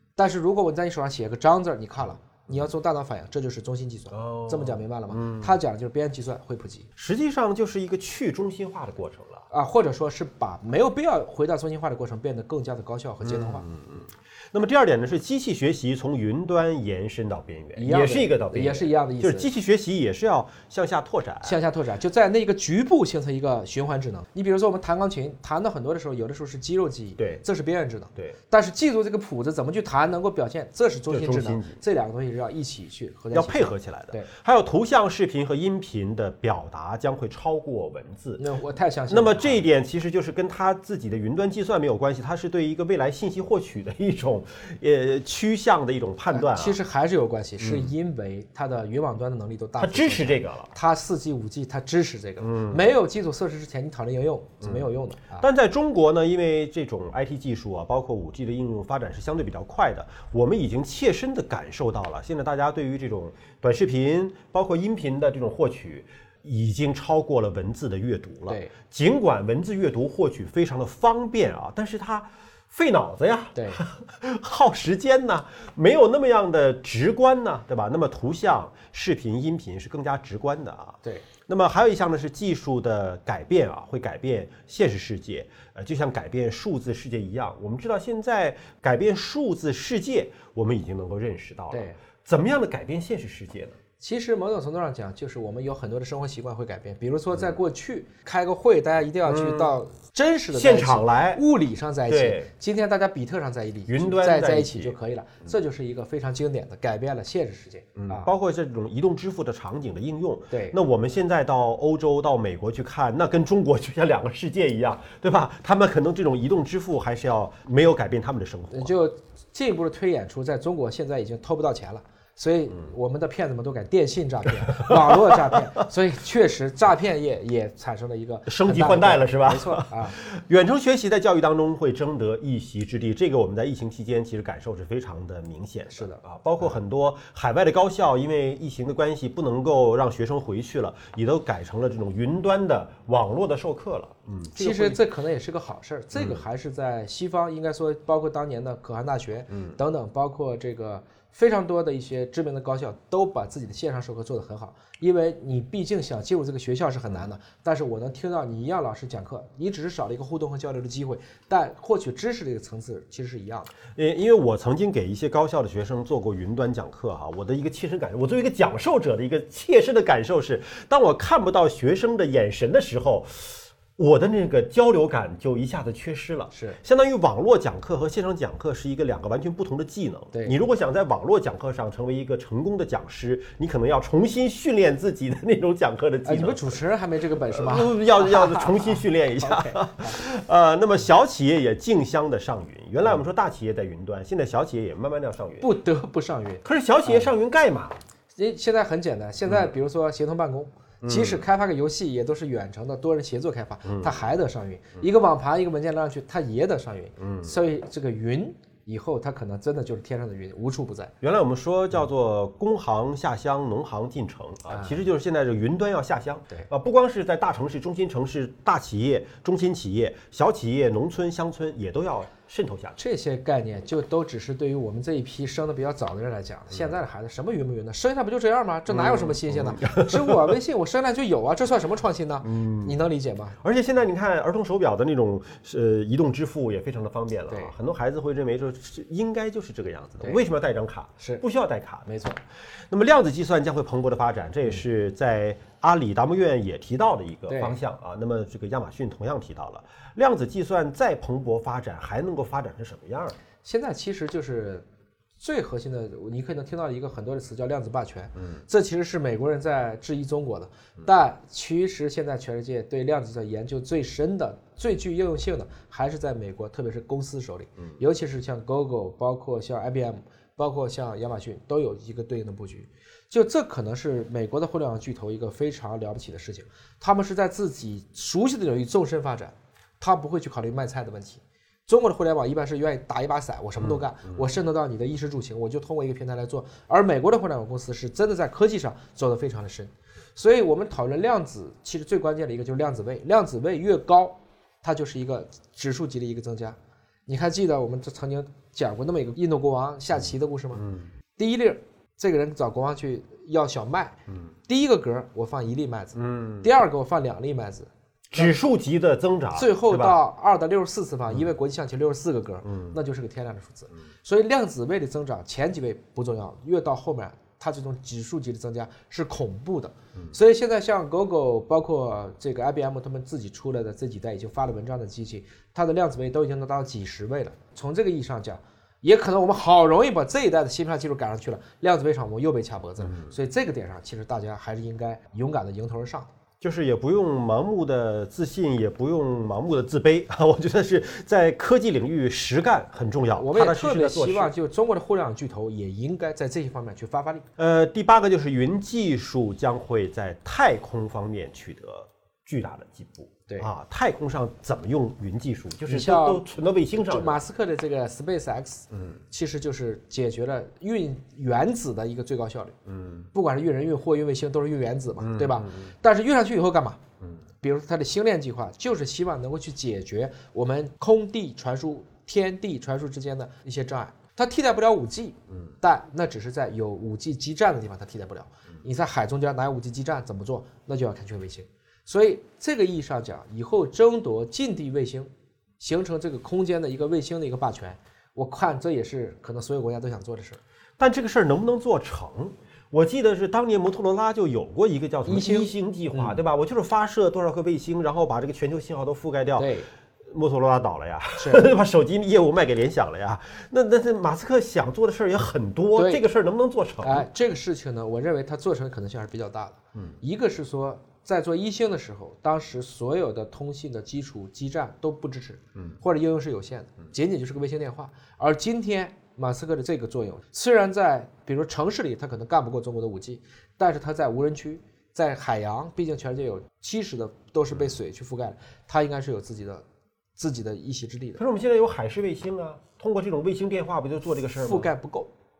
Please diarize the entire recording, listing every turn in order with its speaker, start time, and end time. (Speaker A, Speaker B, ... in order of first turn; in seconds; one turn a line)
Speaker A: 0.1-6.9
Speaker B: 4.1-5.6
Speaker B: 7.0-9.4
Speaker A: 9.5-13.7
Speaker B: 13.2-21.6
Speaker A: 17.8-19.5
Speaker A: 21.4-34.3
Speaker B: 27.2-27.4
Speaker B: 31.1-31.8
Speaker B: 33.3-38.4
Speaker A: 38.4-39.6
Speaker B: 39.1-46.8
Speaker A: 46.3-55.5
Speaker B: 47.6-47.9
Speaker B: 49.8-50.7
Speaker B: 52.4-52.8
Speaker B: 55.4-93.7
Speaker A: 68.5-68.7
Speaker A: 73.5-73.8
Speaker A: 91.7-92.0
Speaker A: 94.0-108.3
Speaker B: 99.2-99.7
Speaker B: 100.5-101.4
Speaker B: 102.1-102.5
Speaker B: 103.9-105.0
Speaker B: 108.0-118.9
Speaker A: 110.5-110.8
Speaker A: 118.7-130.2
Speaker B: 124.7-125.5
Speaker B: 128.4-145.0
Speaker A: 135.9-136.2
Speaker A: 144.5-163.7
Speaker B: 146.1-146.4
Speaker B: 149.5-149.8
Speaker B: 163.9-186.8
Speaker A: 176.5-176.8
Speaker A: 186.2-190.2
Speaker B: 187.4-195.7
Speaker A: 195.6-197.3
Speaker B: 196.6-198.0
Speaker A: 198.3-211.1
Speaker B: 201.0-201.4
Speaker B: 203.8-204.3
Speaker B: 207.2-207.5
Speaker B: 211.2-223.0
Speaker A: 214.7-215.0
Speaker A: 223.0-233.6
Speaker B: 228.9-230.4
Speaker B: 232.4-233.0
Speaker B: 233.6-242.1
Speaker A: 242.1-242.4
Speaker B: 242.9-253.3
Speaker A: 247.5-247.8
Speaker A: 253.6-254.8
Speaker A: 255.4-300.8
Speaker B: 283.8-284.4
Speaker B: 300.7-301.1
Speaker A: 301.4-304.1
Speaker A: 304.7-308.5
Speaker B: 306.1-306.7
Speaker B: 308.3-310.2
Speaker A: 309.5-336.3
Speaker B: 312.6-312.9
Speaker B: 333.0-333.3
Speaker B: 336.6-344.5
Speaker A: 343.3-347.4
Speaker B: 347.6-357.4
Speaker A: 355.9-362.8
Speaker B: 362.9-363.3
Speaker A: 363.3-367.0
Speaker B: 365.2-365.9
Speaker A: 367.6-390.6
Speaker B: 391.0-399.7
Speaker A: 395.2-396.4
Speaker A: 399.6-399.9
Speaker B: 400.3-407.3
Speaker A: 401.4-401.7
Speaker A: 405.9-406.2
Speaker A: 407.0-429.8
Speaker A: 430.4-431.4
Speaker B: 431.4-434.9
Speaker A: 434.6-435.3